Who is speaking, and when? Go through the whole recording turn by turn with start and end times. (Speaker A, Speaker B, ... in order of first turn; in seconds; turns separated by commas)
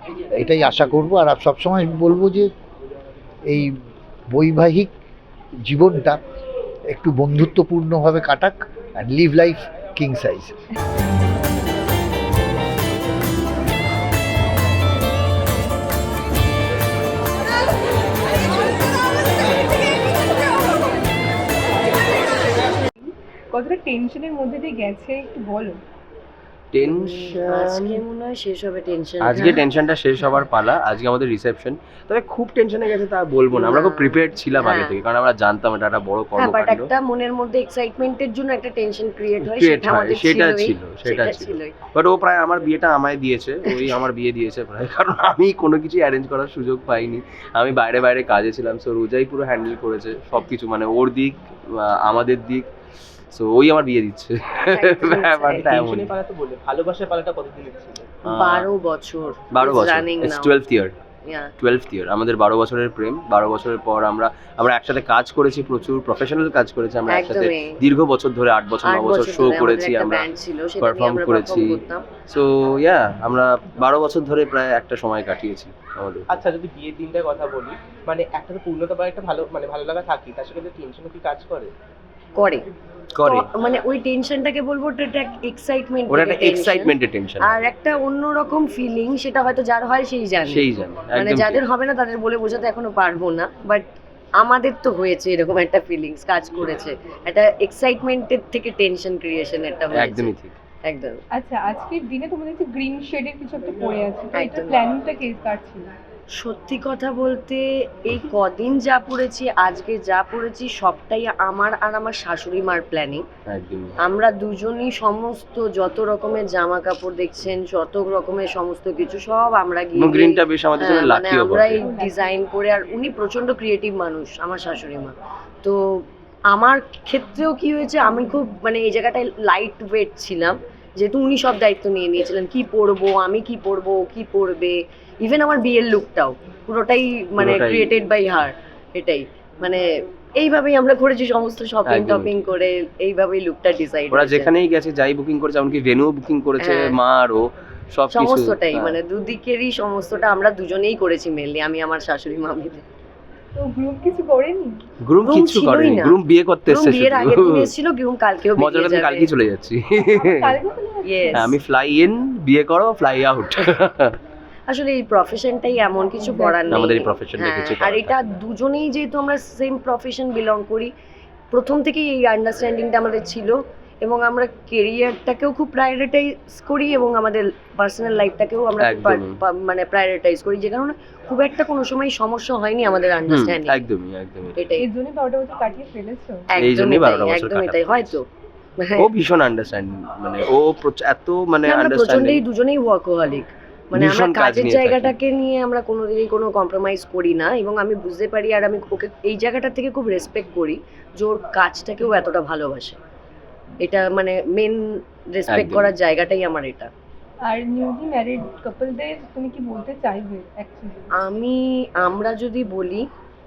Speaker A: 0.3-2.5, Speaker A: 3.5-3.7, Speaker A: 4.3-4.9, Speaker A: 5.6-6.2, Speaker A: 6.9-10.6, Speaker B: 23.0-25.8, Speaker C: 26.7-28.0, Speaker D: 27.3-29.7, Speaker C: 29.2-36.9, Speaker D: 33.5-35.0, Speaker D: 36.4-41.7, Speaker C: 39.4-52.7, Speaker C: 53.3-56.2, Speaker D: 54.7-55.7, Speaker E: 55.5-58.1, Speaker C: 58.3-58.7, Speaker D: 58.3-60.5, Speaker C: 59.5-60.9, Speaker C: 61.6-70.3, Speaker D: 67.1-67.8, Speaker D: 68.8-72.0, Speaker C: 70.8-76.3, Speaker E: 76.3-81.7, Speaker D: 82.4-82.6, Speaker C: 83.2-83.5, Speaker D: 83.2-93.9, Speaker C: 86.1-87.6, Speaker C: 90.4-91.6, Speaker D: 94.4-100.3, Speaker C: 99.9-100.5, Speaker D: 100.8-101.2, Speaker B: 101.3-105.9, Speaker D: 104.3-104.8, Speaker D: 106.4-113.2, Speaker C: 113.5-113.9, Speaker D: 114.0-139.8, Speaker C: 120.0-121.9, Speaker B: 121.8-122.3, Speaker C: 137.4-137.9, Speaker D: 140.4-144.5, Speaker C: 141.8-142.4, Speaker C: 144.1-149.0, Speaker D: 146.6-146.9, Speaker D: 148.1-152.8, Speaker B: 153.6-154.8, Speaker C: 155.0-157.7, Speaker D: 155.2-159.3, Speaker C: 158.6-160.6, Speaker B: 160.1-161.6, Speaker D: 161.0-161.6, Speaker C: 161.3-164.2, Speaker D: 164.7-170.9, Speaker B: 166.0-166.9, Speaker C: 166.7-168.4, Speaker D: 171.5-183.8, Speaker C: 178.8-179.4, Speaker C: 183.3-184.6, Speaker D: 184.6-184.8, Speaker B: 184.8-186.5, Speaker D: 186.5-188.2, Speaker C: 186.6-188.1, Speaker D: 188.8-189.1, Speaker C: 189.0-192.4, Speaker D: 191.7-203.0, Speaker C: 193.9-195.1, Speaker D: 203.8-204.8, Speaker D: 205.3-206.9, Speaker C: 205.5-205.9, Speaker B: 207.4-211.2, Speaker D: 211.1-213.0